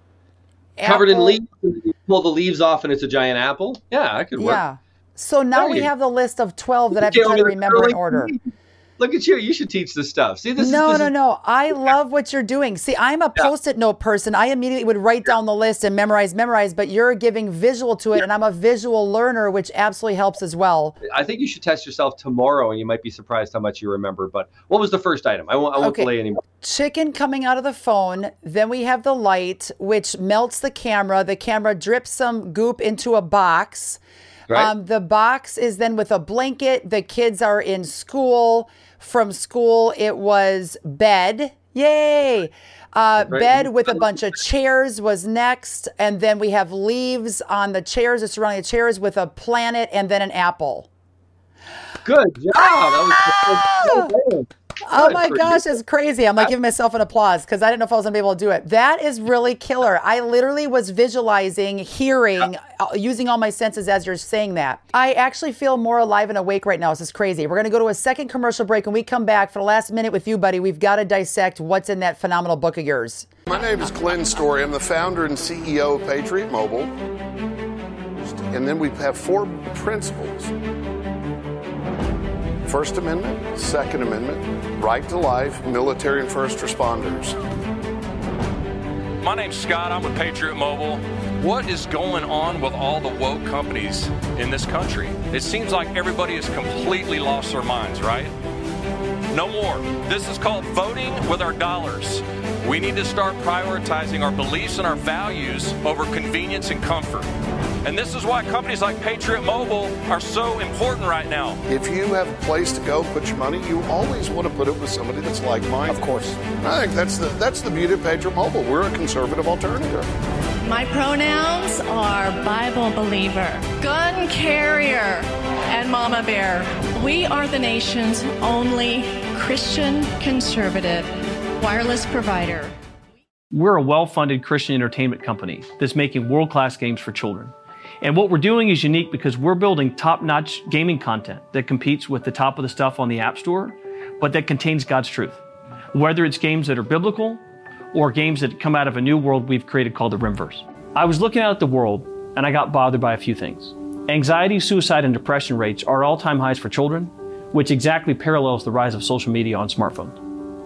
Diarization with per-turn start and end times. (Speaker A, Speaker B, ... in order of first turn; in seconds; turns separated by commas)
Speaker A: 0.8-1.4, Speaker B: 0.8-4.6, Speaker A: 4.4-8.3, Speaker B: 5.5-5.9, Speaker B: 6.9-8.4, Speaker B: 9.0-11.1, Speaker A: 10.6-20.9, Speaker B: 21.0-26.4, Speaker A: 25.8-26.1, Speaker A: 26.6-34.0, Speaker A: 34.5-50.9, Speaker B: 43.2-44.0, Speaker B: 52.0-55.6, Speaker A: 53.3-54.1, Speaker A: 54.8-73.3, Speaker C: 73.5-76.9, Speaker C: 78.2-80.5, Speaker C: 82.7-87.3, Speaker D: 89.2-98.3, Speaker D: 99.3-107.3, Speaker D: 107.8-111.6, Speaker C: 111.7-120.1, Speaker E: 120.6-132.7, Speaker F: 133.5-145.4, Speaker F: 145.9-147.4, Speaker F: 147.9-160.2